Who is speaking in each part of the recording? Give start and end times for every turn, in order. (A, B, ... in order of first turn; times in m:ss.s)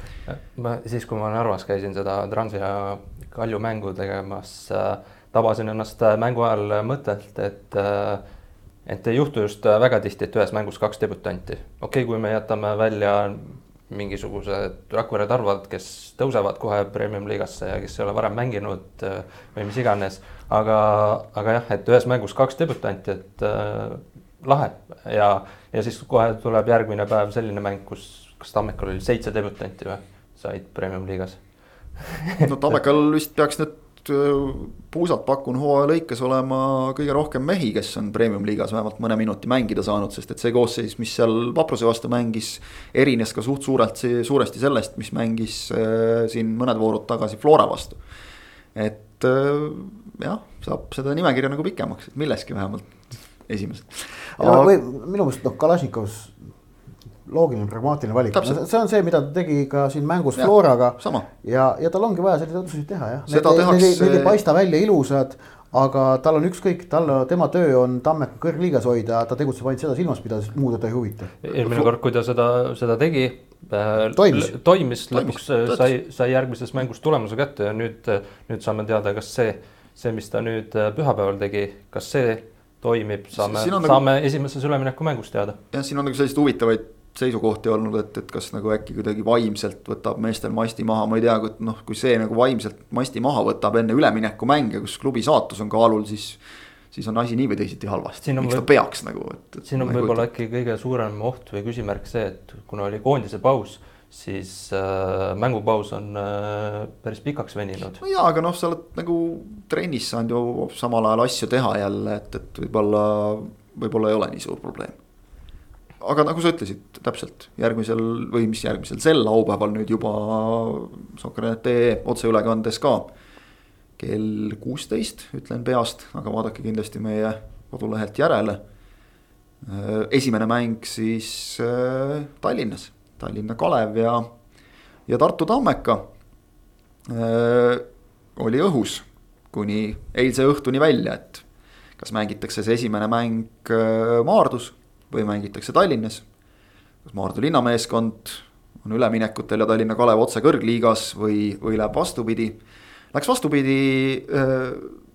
0:00.3-0:08.2 A
0:08.8-0:31.4 A
0:32.0-0:32.4 A
0:32.4-0:48.0 B
0:48.7-0:54.7 B
0:54.4-0:56.4 C
0:57.2-1:11.3 C
0:58.3-0:58.6 B
1:00.4-1:01.2 B
1:03.3-1:04.4 B
1:11.4-1:25.6 A
1:14.1-1:14.5 C
1:15.1-1:15.9 B
1:23.4-1:24.0 B
1:25.7-1:36.4 B
1:36.9-1:40.2 B
1:38.2-1:38.7 A
1:39.6-1:48.0 A
1:48.0-1:55.0 B
1:56.0-2:03.1 B
2:04.0-2:08.6 B
2:09.6-2:14.3 B
2:15.1-2:16.0 B
2:17.1-2:17.8 B
2:18.4-2:21.4 B
2:22.0-2:26.2 B
2:27.0-2:32.6 B
2:33.1-2:35.0 B